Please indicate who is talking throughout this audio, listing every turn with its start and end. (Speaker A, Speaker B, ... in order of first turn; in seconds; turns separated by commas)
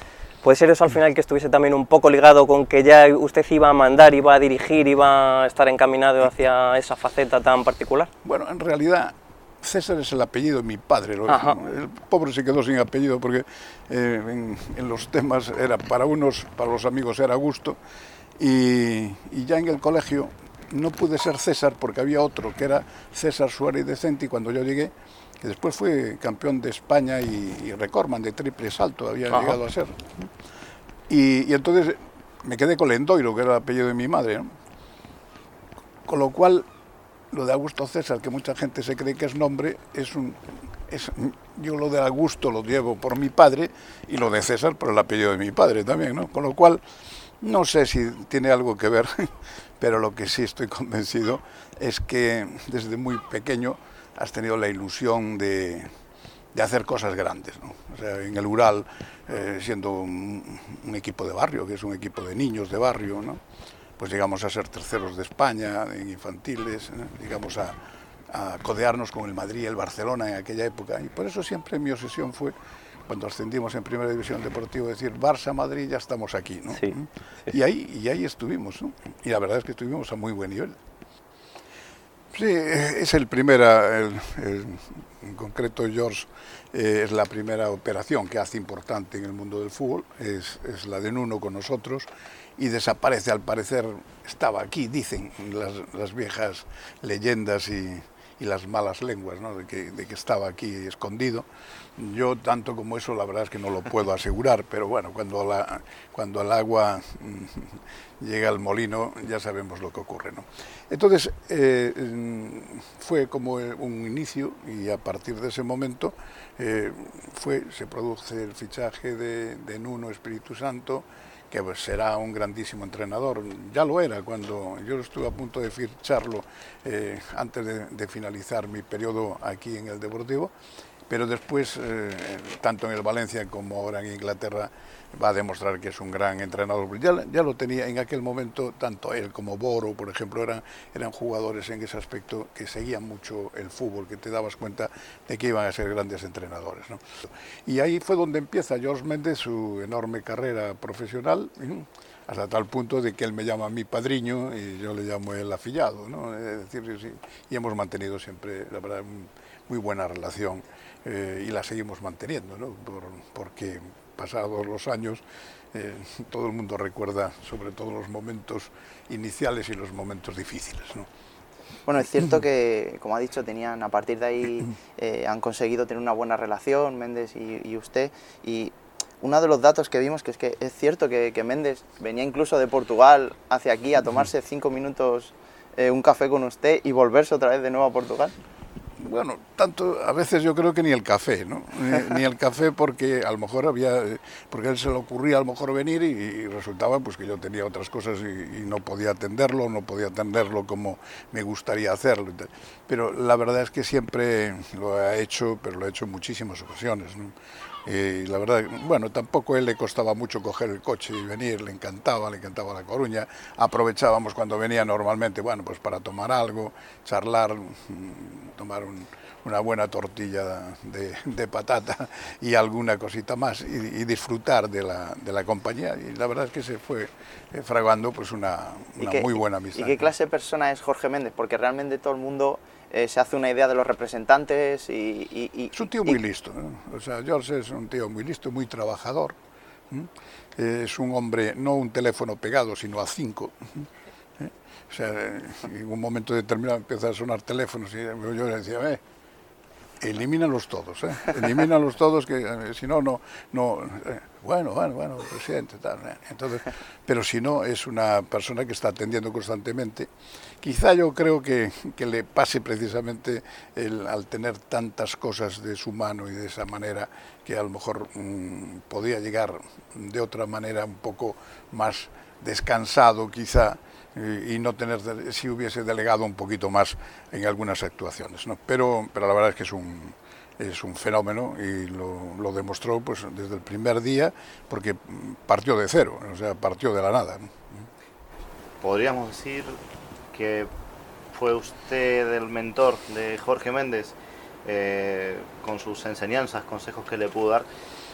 Speaker A: 0.4-8.1, Speaker B: 8.2-17.8, Speaker A: 11.3-11.6, Speaker B: 18.4-30.3, Speaker A: 29.3-29.6, Speaker B: 31.1-34.5, Speaker B: 36.0-36.7, Speaker B: 37.3-46.8, Speaker B: 47.4-55.9, Speaker B: 56.5-63.4, Speaker B: 64.0-72.5, Speaker B: 73.1-80.8, Speaker B: 82.3-130.5, Speaker B: 131.1-171.1, Speaker C: 171.8-188.3, Speaker B: 189.0-230.1, Speaker C: 229.0-236.2, Speaker B: 235.7-239.4, Speaker B: 239.9-243.9, Speaker B: 244.4-249.0, Speaker B: 250.0-260.1, Speaker B: 260.6-287.9, Speaker D: 288.8-289.8, Speaker D: 290.3-290.7, Speaker D: 291.3-297.7